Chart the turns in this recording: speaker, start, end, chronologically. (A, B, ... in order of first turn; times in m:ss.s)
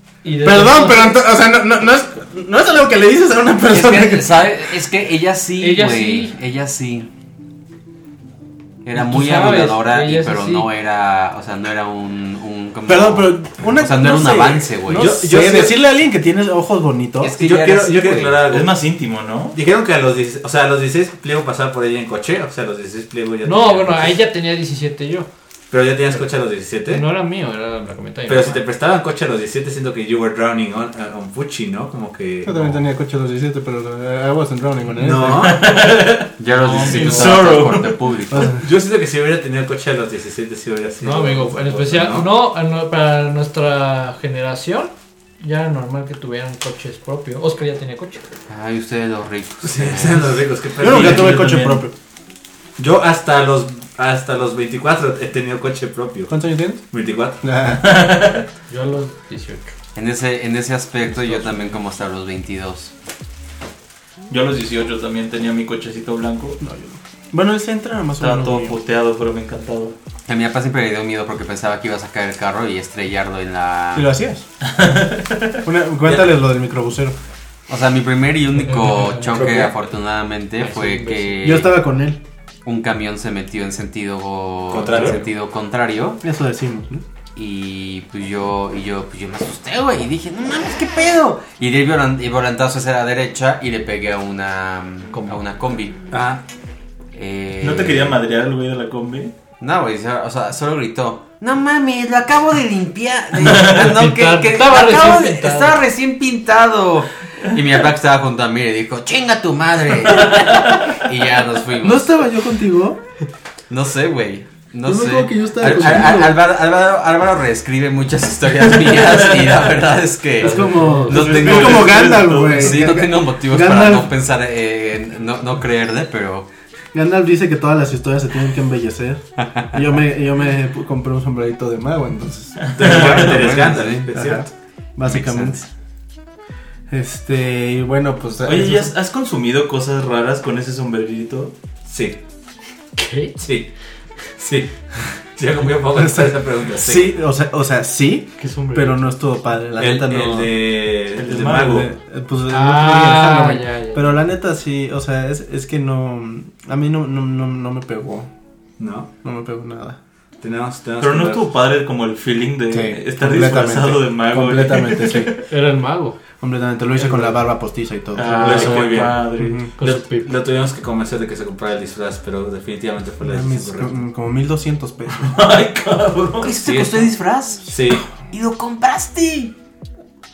0:00.2-0:01.2 A
0:00.4-0:04.6 B
0:03.7-0:07.1 C
0:05.6-0:06.3 A
0:08.8-0:15.2 C
0:08.9-0:10.7 A
0:12.9-0:17.4 B
0:14.9-0:15.8 D
0:17.2-0:18.4 C
0:17.4-0:18.8 D
0:18.5-0:19.6 E
0:19.5-0:24.2 D
0:23.4-0:25.3 A
0:25.7-0:27.0 D
0:26.9-0:28.6 A
0:28.3-0:32.5 D
0:32.4-0:35.6 B
0:35.0-0:35.7 D
0:35.3-0:38.0 E
0:36.4-0:38.5 C
0:36.5-0:37.4 A
0:38.3-0:38.6 B
0:38.4-0:42.3 D
0:41.0-0:48.2 A
0:48.5-0:50.4 C
0:49.6-0:51.4 D
0:50.8-0:51.9 B
0:50.8-0:51.8 E
0:52.8-0:56.3 D
0:56.3-0:56.8 B
0:56.9-0:57.4 D
0:57.4-0:57.8 B
0:57.8-0:58.4 E
0:58.7-0:59.7 A
0:59.9-1:02.9 C
1:04.3-1:06.6 E
1:06.6-1:08.8 B
1:08.2-1:10.0 E
1:10.3-1:14.1 C
1:13.9-1:14.4 B
1:14.6-1:15.6 E
1:15.6-1:17.2 B
1:17.7-1:21.8 C
1:18.7-1:19.3 A
1:19.3-1:19.7 D
1:20.6-1:21.4 A
1:21.4-1:22.2 B
1:22.6-1:26.2 C
1:24.7-1:25.2 D
1:26.2-1:27.0 B
1:27.3-1:36.0 C
1:36.1-1:36.4 D
1:37.1-1:38.2 C
1:37.6-1:39.3 E
1:39.6-1:52.1 C
1:43.4-1:43.7 E
1:43.5-1:45.8 A
1:50.1-1:51.0 E
1:51.8-1:53.0 B
1:53.7-2:06.5 C
1:54.8-1:56.4 B
1:58.9-1:59.6 E
2:00.4-2:01.3 A
2:00.4-2:04.1 B
2:01.1-2:02.8 E
2:06.9-2:15.7 B
2:12.6-2:13.4 E
2:12.7-2:14.5 D
2:13.0-2:14.1 C
2:15.0-2:15.6 C
2:16.9-2:18.9 B
2:18.4-2:21.5 E
2:21.8-2:22.2 D
2:23.0-2:23.4 A
2:23.4-2:23.7 D
2:24.3-2:27.1 D
2:25.9-2:30.6 B
2:28.4-2:29.0 A
2:29.8-2:31.9 D
2:31.1-2:31.9 E
2:31.4-2:38.3 B
2:32.5-2:34.2 A
2:38.8-2:39.1 D
2:39.2-2:40.0 B
2:40.4-2:41.4 D
2:41.0-2:45.4 E
2:42.7-2:45.4 B
2:45.5-2:46.2 A
2:46.4-2:48.8 B
2:47.0-2:47.4 E
2:48.1-2:49.9 E
2:48.2-2:49.2 A
2:48.4-2:49.2 D
2:49.4-2:49.7 B
2:49.8-2:50.3 A
2:49.8-2:54.0 D
2:53.2-2:55.3 B
2:55.2-2:56.6 E
2:56.4-2:59.5 C
2:56.6-2:58.1 D